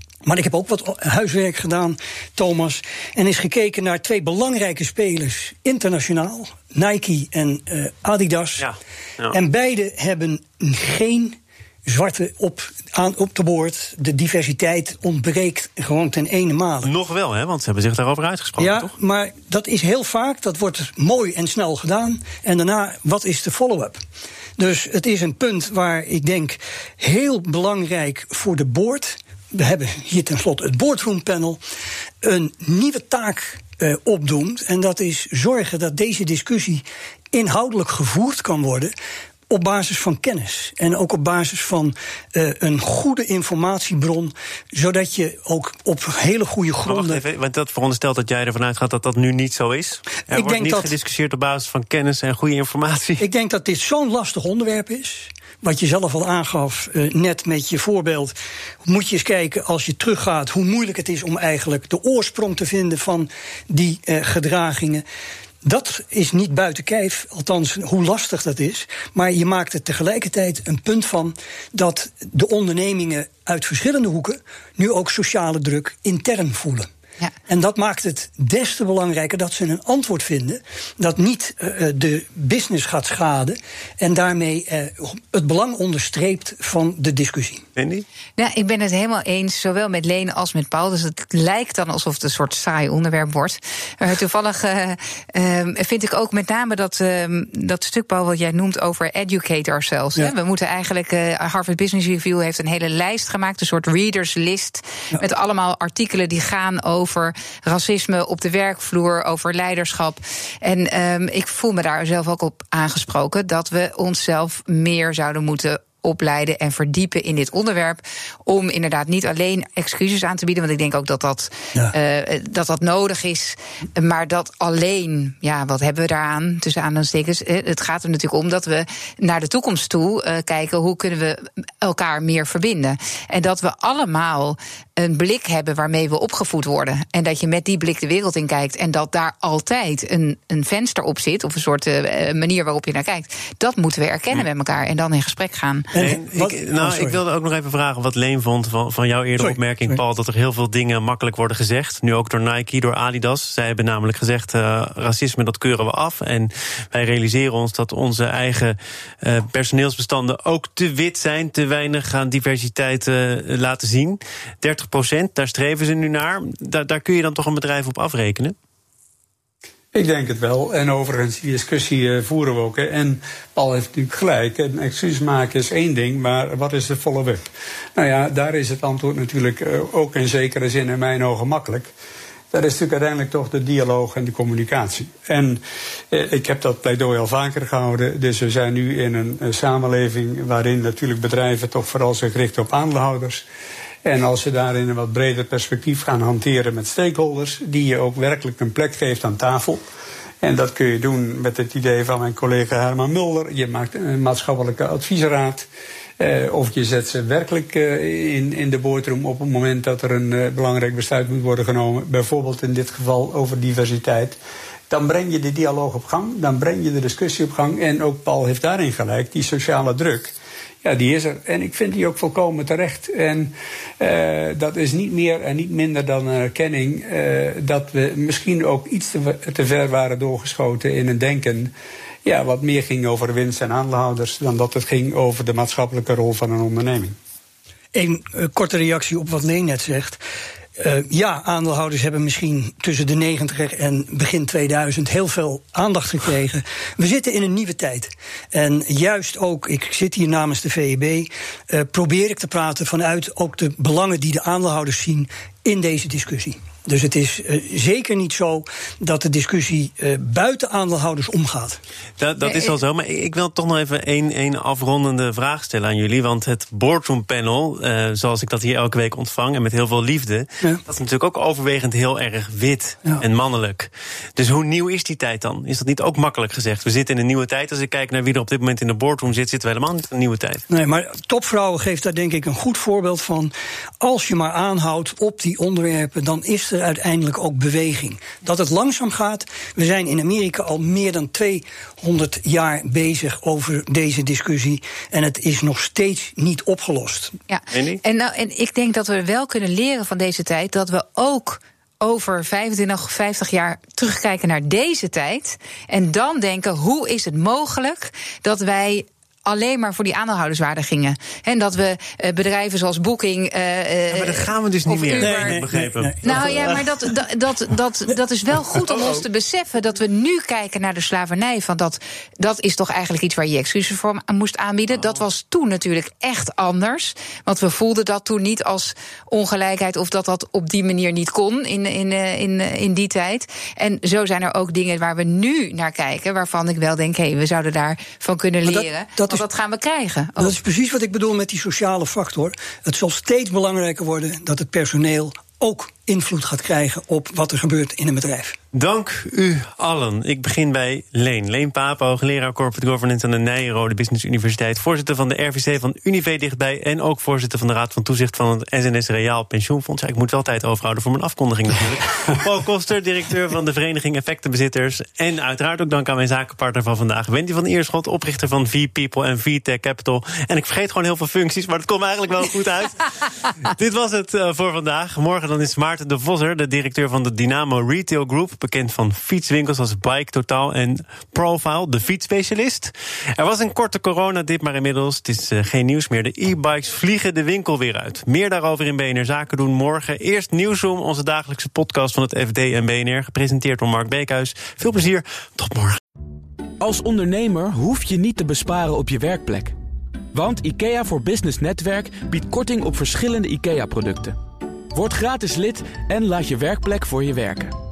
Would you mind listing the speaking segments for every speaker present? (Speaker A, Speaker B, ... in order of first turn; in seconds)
Speaker A: 0.2-8.7, 9.3-16.9, 18.6-24.0, 24.6-31.6, 32.2-38.9, 39.5-47.2, 50.3-50.9, 53.2-65.0, 65.6-76.9, 77.5-87.7, 145.9-147.2, 149.4-150.0, 237.9-240.2, 240.8-261.8, 280.7-297.4, 315.2-316.8, 338.6-339.4, 340.4-348.6
Speaker B: 8.6-9.3, 16.8-18.9, 46.9-53.2, 87.8-88.0, 146.0-168.6, 262.2-280.6, 297.7-298.0, 314.1-316.8, 348.7-396.0
Speaker C: 88.4-145.9, 297.5-315.6, 316.2-340.6
Speaker D: 169.9-181.9, 182.5-193.4, 194.1-199.8, 200.4-205.7, 206.2-214.4, 214.9-231.7, 232.2-237.2
Speaker E: 396.8-399.8, 400.3-404.4, 404.9-407.8